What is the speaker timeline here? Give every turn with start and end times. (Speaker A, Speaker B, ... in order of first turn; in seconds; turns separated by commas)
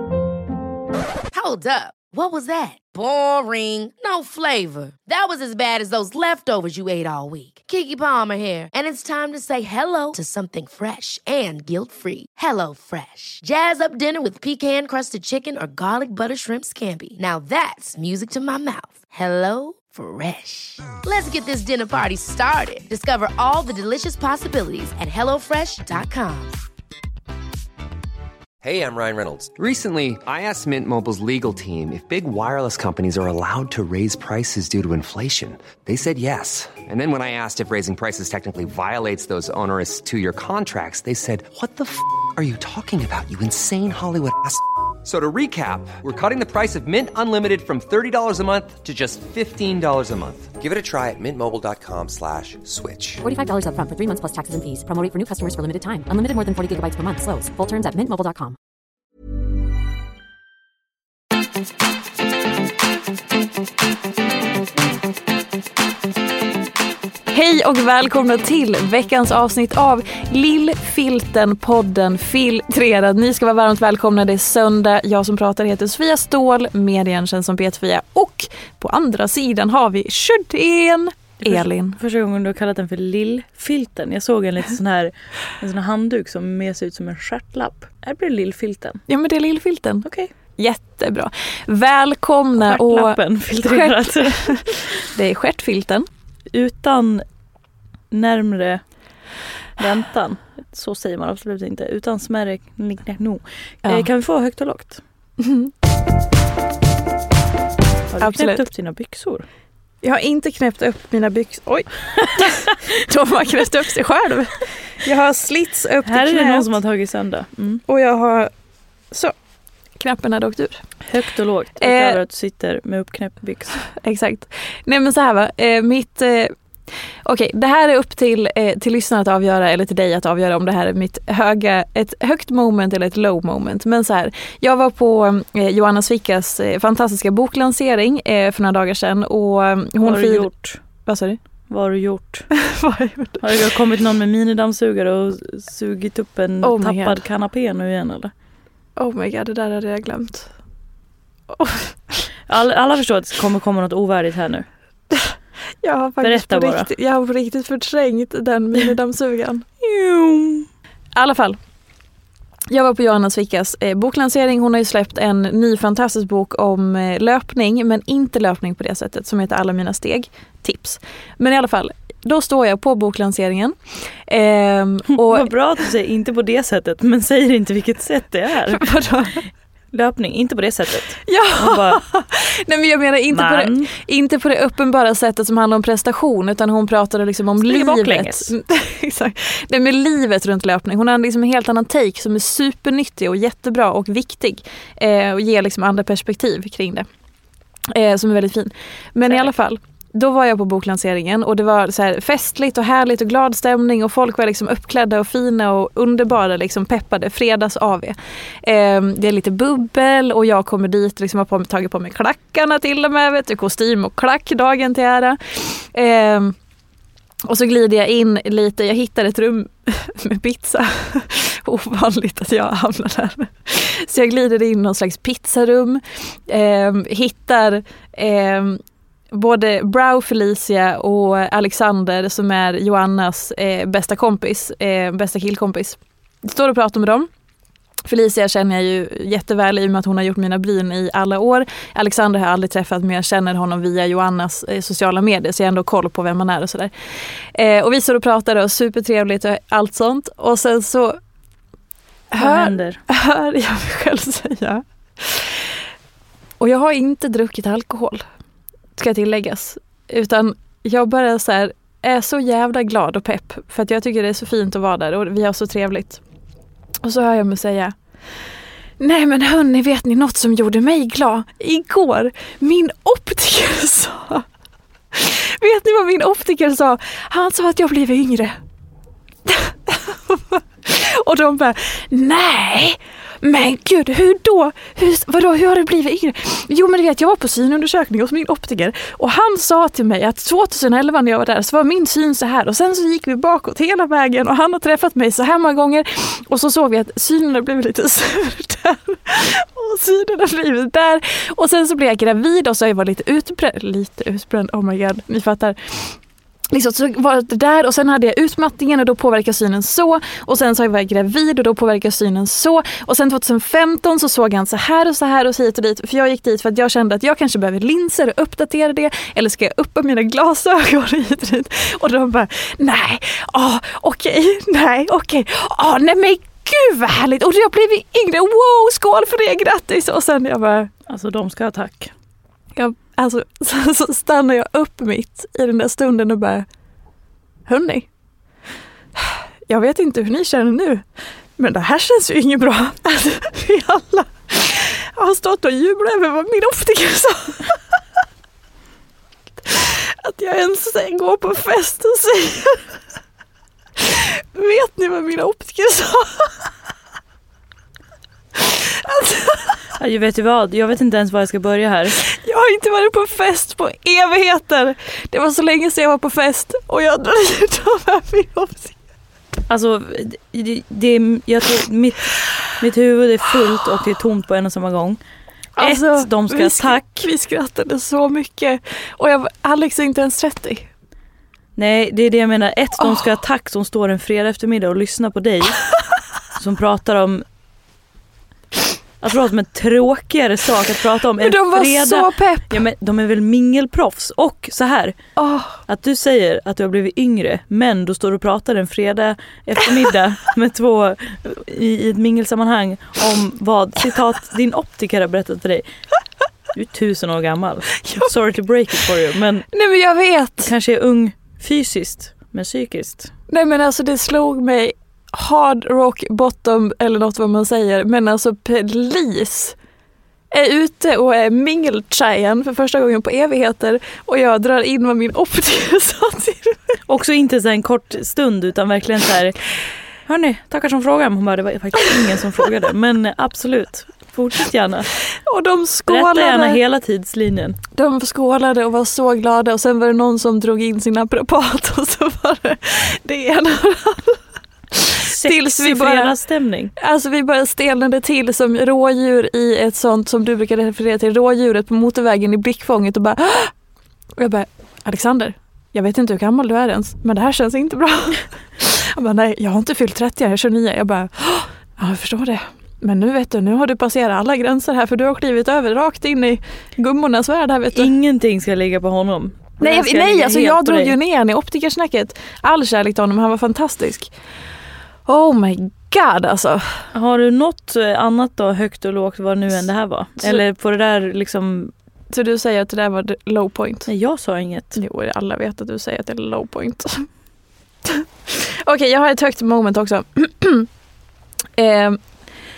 Speaker A: 1.3-26.6, Speaker B: 28.6-53.2, Speaker C: 53.2-58.6, Speaker D: 67.3-82.0, Speaker E: 81.4-89.0, Speaker D: 89.1-96.1, Speaker E: 90.0-90.3, Speaker E: 92.6-94.9, Speaker E: 96.5-97.2, Speaker E: 98.1-98.8, Speaker E: 99.8-105.0, Speaker D: 105.4-105.7, Speaker E: 108.1-109.5, Speaker D: 108.2-108.7, Speaker D: 110.0-116.7, Speaker E: 116.0-117.8, Speaker D: 117.9-118.5, Speaker D: 120.0-120.8, Speaker E: 121.1-123.8, Speaker D: 121.8-122.2, Speaker D: 123.9-126.5, Speaker D: 127.2-141.4, Speaker E: 140.0-140.8, Speaker E: 141.7-142.5, Speaker D: 142.6-143.4, Speaker E: 143.4-148.3, Speaker D: 146.6-147.2, Speaker D: 149.0-150.5, Speaker D: 151.5-152.2, Speaker E: 152.5-154.7, Speaker D: 155.1-159.7, Speaker E: 156.2-156.9, Speaker E: 159.8-160.7, Speaker D: 161.2-161.6, Speaker D: 162.7-175.5, Speaker E: 175.2-178.9, Speaker D: 178.7-179.4, Speaker E: 179.9-182.0, Speaker D: 181.2-197.1, Speaker E: 183.3-183.9, Speaker E: 187.6-188.5, Speaker D: 197.9-216.6, Speaker D: 217.5-228.8, Speaker D: 229.3-237.3, Speaker D: 238.1-251.2, Speaker D: 252.3-255.8, Speaker E: 252.4-253.0, Speaker D: 256.6-258.3, Speaker D: 259.0-266.2, Speaker D: 267.0-268.0, Speaker D: 269.0-274.4, Speaker D: 275.1-278.6, Speaker D: 279.4-306.2, Speaker D: 306.7-330.9, Speaker E: 331.1-332.1, Speaker D: 332.8-336.7, Speaker D: 337.7-338.1, Speaker D: 339.1-341.1, Speaker D: 341.6-347.8, Speaker D: 349.6-353.0, Speaker D: 354.0-356.7, Speaker D: 358.6-359.8, Speaker E: 360.0-362.2, Speaker D: 362.3-369.0, Speaker E: 369.7-375.2, Speaker D: 375.8-380.9, Speaker E: 375.8-377.1, Speaker E: 381.8-385.9, Speaker D: 383.0-383.3, Speaker E: 386.6-387.4, Speaker E: 389.2-395.2, Speaker D: 391.4-392.8, Speaker D: 395.4-395.8, Speaker E: 395.9-405.9, Speaker E: 406.7-409.7, Speaker D: 409.7-410.7, Speaker E: 410.6-413.3, Speaker D: 413.5-419.8, Speaker D: 420.5-427.0, Speaker E: 427.1-429.6, Speaker E: 430.3-435.1, Speaker D: 435.3-436.8, Speaker E: 436.1-437.8, Speaker D: 437.9-444.4, Speaker D: 444.9-446.4, Speaker E: 445.2-446.9, Speaker D: 447.0-453.7, Speaker D: 454.4-468.1, Speaker E: 467.9-471.1, Speaker D: 469.8-474.3, Speaker D: 475.3-477.1, Speaker E: 477.1-481.9, Speaker D: 482.3-484.1, Speaker E: 484.1-485.0, Speaker D: 484.9-487.3, Speaker D: 488.1-490.9, Speaker D: 491.8-492.2